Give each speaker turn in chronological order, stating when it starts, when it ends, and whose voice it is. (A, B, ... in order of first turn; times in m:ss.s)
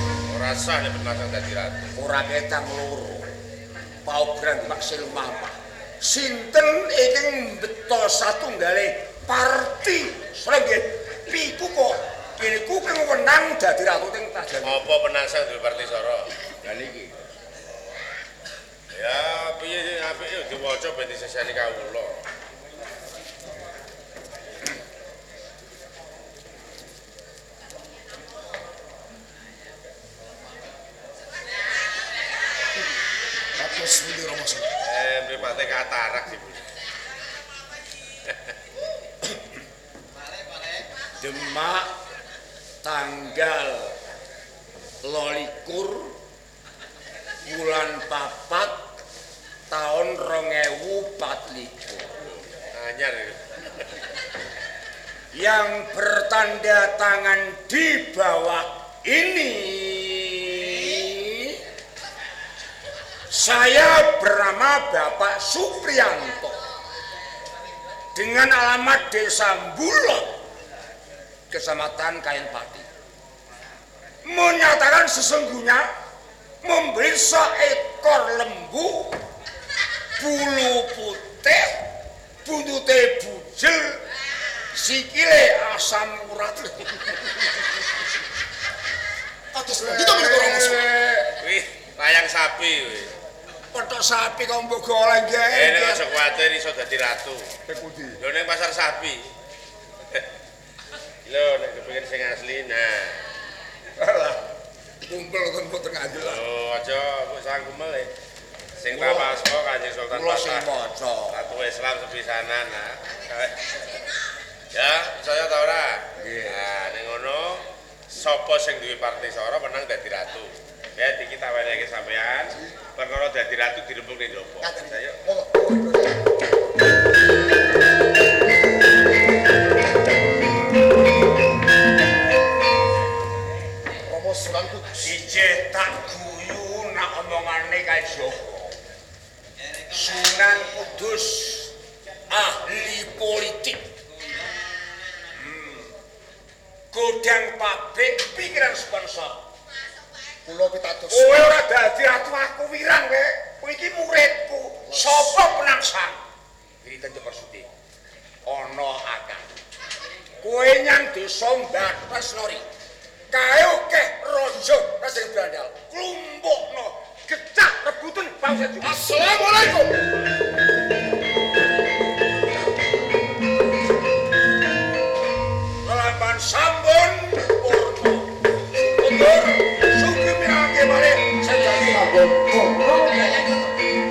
0:00.3-0:01.9 A
0:02.0-0:03.3 B
0:04.0-0:14.8 B
0:14.6-0:16.3 A
0:16.6-0:17.2 B
0:18.9-0:22.2 A
0:33.6-0:34.8 C
0:34.8-0:36.6 A
0:41.2-0:41.9 B
0:42.8-0:44.0 B
0:45.0-0:46.2 B
0:47.4-0:49.0 B
0:49.7-0:52.1 B
0:52.2-0:53.9 A
0:55.3-1:01.6 B
1:03.3-1:06.6 B
1:08.2-1:10.4 B
1:11.5-1:12.9 B
1:14.2-1:16.0 B
1:16.6-1:19.2 B
1:20.2-1:21.9 B
1:22.4-1:24.0 B
1:24.7-1:27.9 B
1:29.5-1:30.9 C
1:29.8-1:31.3 B
1:31.4-1:33.1 A
1:33.7-1:36.0 B
1:35.5-1:37.5 A
1:37.7-1:38.2 B
1:38.2-1:39.3 A
1:41.3-1:43.2 A
1:44.0-1:44.4 B
1:45.0-1:46.4 B
1:46.2-1:48.1 A
1:48.8-1:50.8 A
1:48.9-1:49.3 B
1:50.1-1:51.5 B
1:51.3-1:53.9 A
1:54.7-2:05.2 A
1:56.2-1:56.7 B
2:04.6-2:06.2 C
2:14.0-2:15.2 C
2:15.0-2:18.8 B
2:19.9-2:21.8 B
2:22.3-2:23.9 B
2:25.3-2:25.9 B
2:26.9-2:29.5 B
2:30.4-2:31.5 C
2:31.1-2:36.2 B
2:34.9-2:35.4 C
2:36.8-2:37.7 B
2:38.4-2:39.5 B
2:40.4-2:42.7 B
2:43.3-2:49.8 B
2:48.9-2:49.9 C
2:55.8-3:03.6 B